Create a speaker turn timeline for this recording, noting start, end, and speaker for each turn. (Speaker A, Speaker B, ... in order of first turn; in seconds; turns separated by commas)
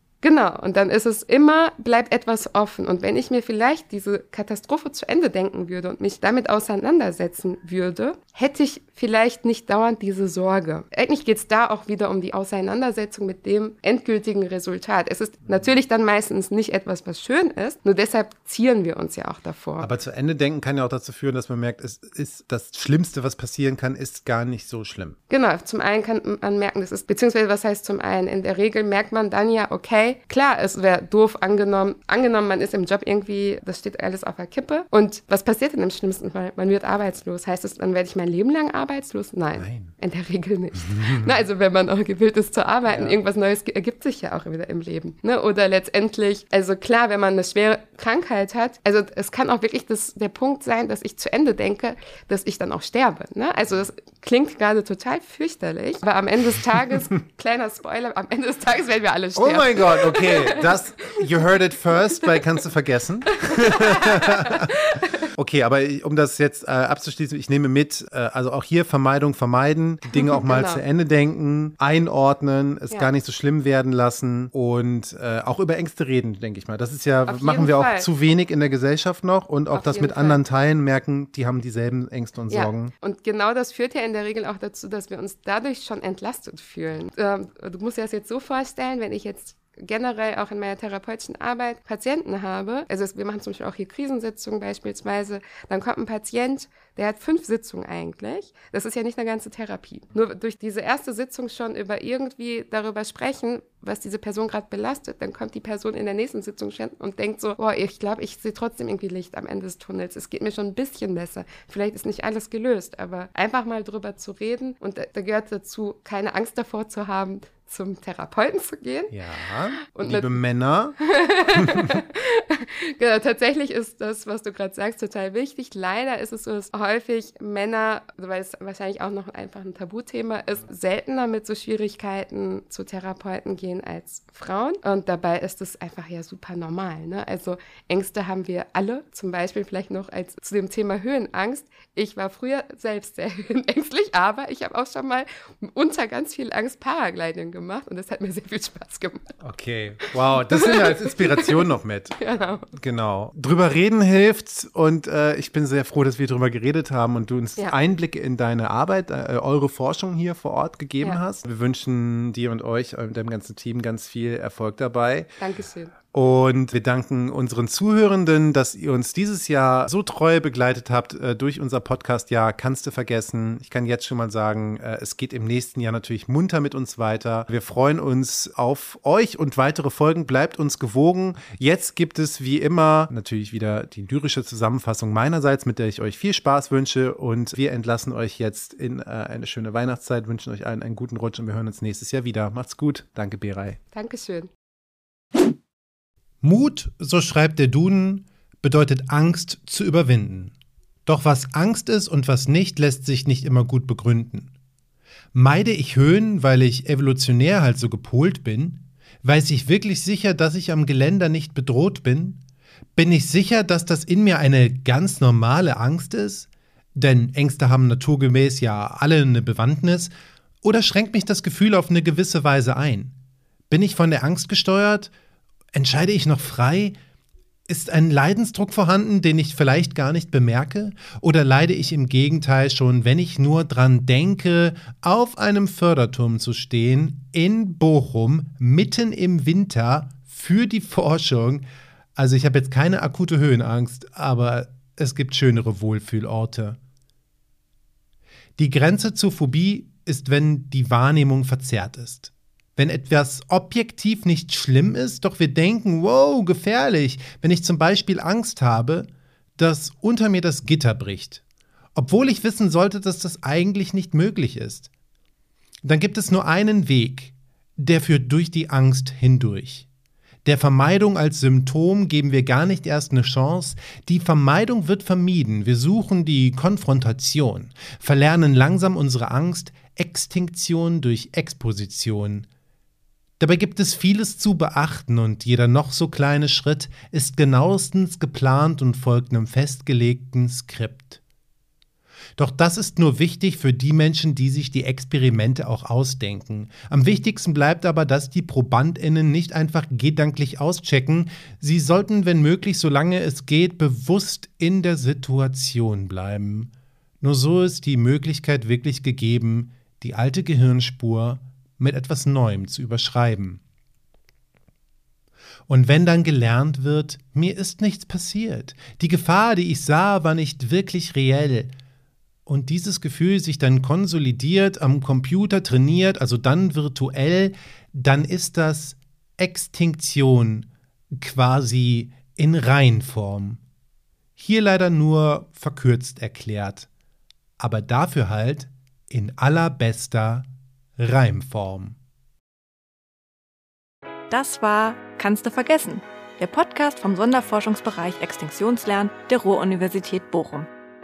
Speaker A: 0.2-19.9, Speaker B: 19.8-25.2, Speaker A: 25.3-61.2, Speaker B: 39.6-39.9, Speaker B: 40.8-41.3, Speaker B: 42.9-43.2, Speaker B: 59.3-82.9, Speaker A: 63.4-65.3, Speaker A: 70.1-70.8, Speaker A: 77.3-78.1, Speaker A: 79.7-80.4, Speaker A: 82.5-119.2, Speaker B: 119.1-121.0, Speaker A: 119.8-120.4, Speaker A: 121.0-149.3, Speaker B: 121.5-122.0, Speaker B: 149.4-152.2, Speaker A: 150.1-152.7, Speaker B: 152.7-165.3, Speaker A: 165.4-165.9, Speaker B: 166.1-193.8, Speaker A: 193.9-194.5, Speaker B: 196.4-200.5, Speaker B: 201.1-204.5, Speaker B: 205.3-212.4, Speaker B: 212.9-220.1, Speaker B: 220.6-223.1, Speaker B: 223.7-225.1, Speaker B: 225.7-227.0, Speaker B: 227.7-241.6, Speaker B: 242.2-246.8, Speaker B: 248.6-259.1, Speaker B: 259.6-261.4, Speaker B: 261.9-264.9, Speaker B: 265.8-269.9, Speaker B: 270.4-282.5, Speaker B: 283.4-291.2, Speaker B: 292.4-306.7, Speaker B: 307.2-313.6, Speaker B: 315.7-321.7, Speaker B: 322.5-333.6, Speaker B: 334.4-336.9, Speaker B: 337.6-342.0, Speaker C: 344.3-350.7